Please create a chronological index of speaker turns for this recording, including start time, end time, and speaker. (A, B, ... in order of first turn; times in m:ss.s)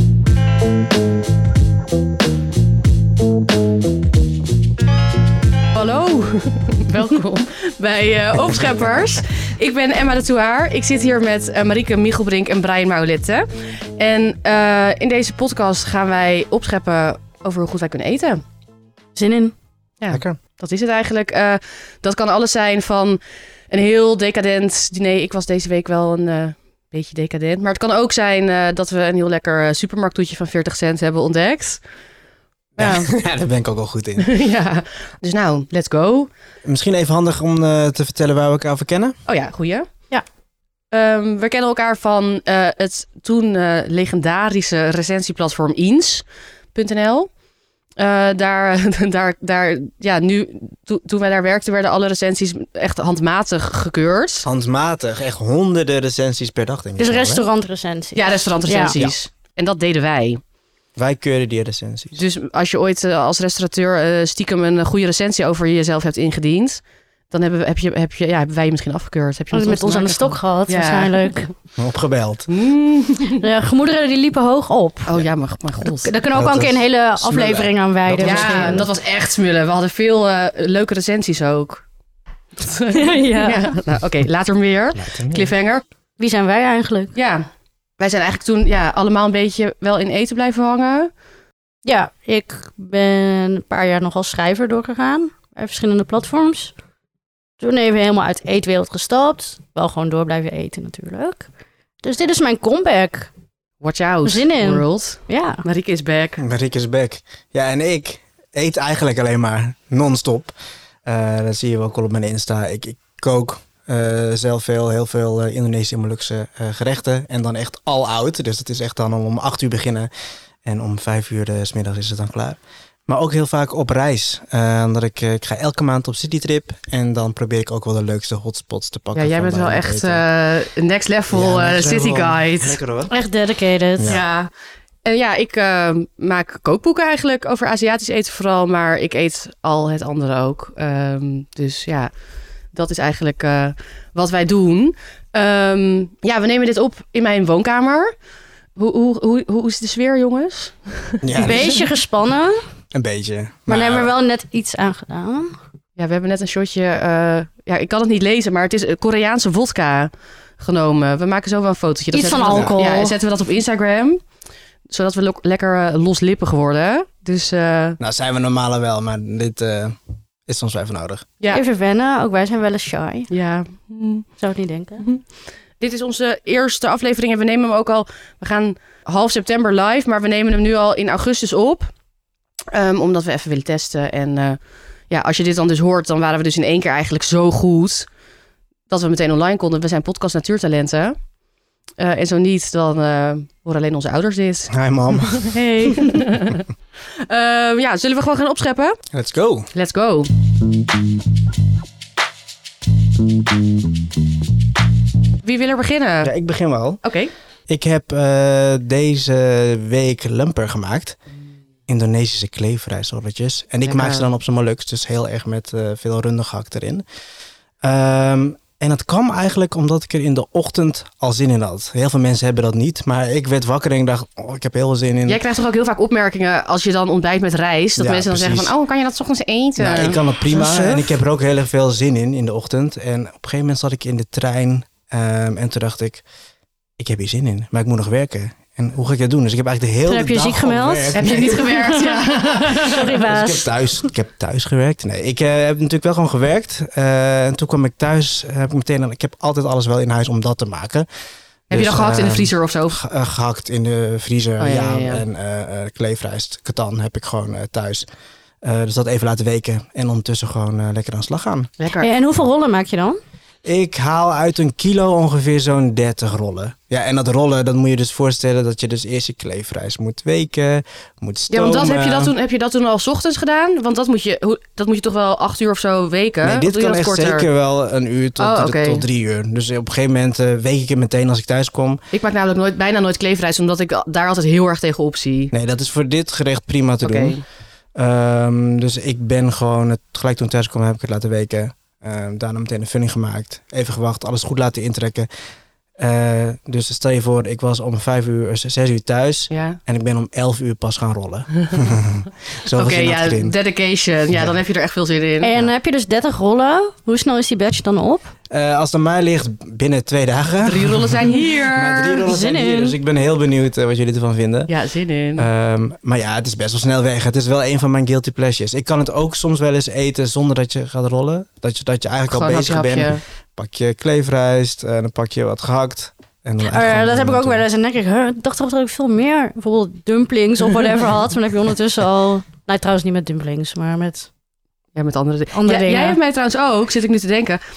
0:05.7-0:18.4 A
0:19.2-0:19.5 B
0:20.0-0:31.8 A
0:20.1-0:20.4 C
0:32.8-0:33.1 A
0:32.8-0:34.4 C
0:34.2-0:36.3 A
0:36.6-0:39.2 C
0:39.3-0:39.9 A
0:40.9-0:47.3 A
0:48.0-0:54.5 A
0:54.4-0:57.4 C
0:57.0-0:59.0 B
0:58.1-1:00.4 A
1:01.0-1:02.2 C
1:02.1-1:11.3 A
1:09.5-1:11.5 B
1:11.8-1:12.5 C
1:12.5-1:13.4 A
1:13.4-1:15.2 B
1:15.0-1:16.1 A
1:15.9-1:18.9 B
1:16.3-1:18.9 C
1:18.2-1:21.8 A
1:22.5-1:25.8 A
1:22.9-1:23.7 B
1:24.9-1:25.5 C
1:26.2-1:27.1 B
1:27.1-1:27.5 A
1:28.0-1:31.1 A
1:31.8-1:36.7 B
1:37.6-1:41.5 B
1:42.0-1:43.3 B
1:43.8-1:46.4 A
1:44.2-1:45.6 B
1:46.4-1:50.5 C
1:51.0-2:00.1 C
2:00.6-2:10.2 C
2:09.1-2:12.8 A
2:11.3-2:13.1 C
2:13.1-2:14.2 B
2:14.0-2:14.2 C
2:14.0-2:14.5 A
2:15.0-2:22.1 A
2:22.7-2:28.1 A
2:28.8-2:31.8 A
2:31.2-2:31.8 C
2:31.4-2:32.6 B
2:32.9-2:34.1 C
2:33.7-2:35.5 B
2:36.0-2:44.2 A
2:42.1-2:43.2 B
2:42.4-2:42.7 C
2:44.9-2:48.0 A
2:48.0-2:49.9 C
2:50.4-2:51.3 C
2:51.5-2:53.3 B
2:53.3-2:54.3 A
2:54.4-2:55.0 B
2:55.8-3:01.9 A
3:02.7-3:04.6 A
3:05.1-3:08.1 A
3:08.9-3:11.2 A
3:12.0-3:14.7 A
3:14.7-3:15.5 C
3:15.3-3:16.7 A
3:15.5-3:16.2 B
3:17.2-3:19.0 A
3:19.1-3:19.7 C
3:19.7-3:20.3 A
3:25.4-3:26.3 A
3:26.2-3:27.0 C
3:27.0-3:27.3 A
3:27.7-3:31.2 C
3:31.9-3:37.0 C
3:33.8-3:34.2 A
3:37.8-3:45.4 C
3:45.2-3:51.0 A
3:48.0-3:48.7 C
3:49.8-3:56.2 C
3:50.5-3:51.0 B
3:57.0-4:01.7 C
4:00.1-4:04.0 B
4:01.1-4:03.2 A
4:02.9-4:11.1 C
4:11.7-4:13.0 A
4:11.7-4:18.1 C
4:14.6-4:15.2 A
4:18.6-4:21.7 C
4:21.8-4:22.1 A
4:22.0-4:23.2 B
4:23.6-4:32.3 C
4:31.5-4:37.5 A
4:36.4-4:42.0 C
4:38.4-4:39.0 A
4:42.1-4:45.5 A
4:45.5-4:47.4 C
4:47.0-4:47.4 A
4:47.9-4:55.3 C
4:56.0-5:03.5 C
4:59.5-4:59.8 A
5:01.6-5:01.9 A
5:02.7-5:05.5 A
5:05.4-5:08.3 B
5:08.5-5:14.7 C
5:10.6-5:12.2 A
5:12.2-5:13.0 B
5:14.7-5:15.5 A
5:15.4-5:27.6 C
5:22.3-5:23.2 A
5:26.6-5:34.3 B
5:34.9-5:37.6 A
5:35.5-5:36.2 B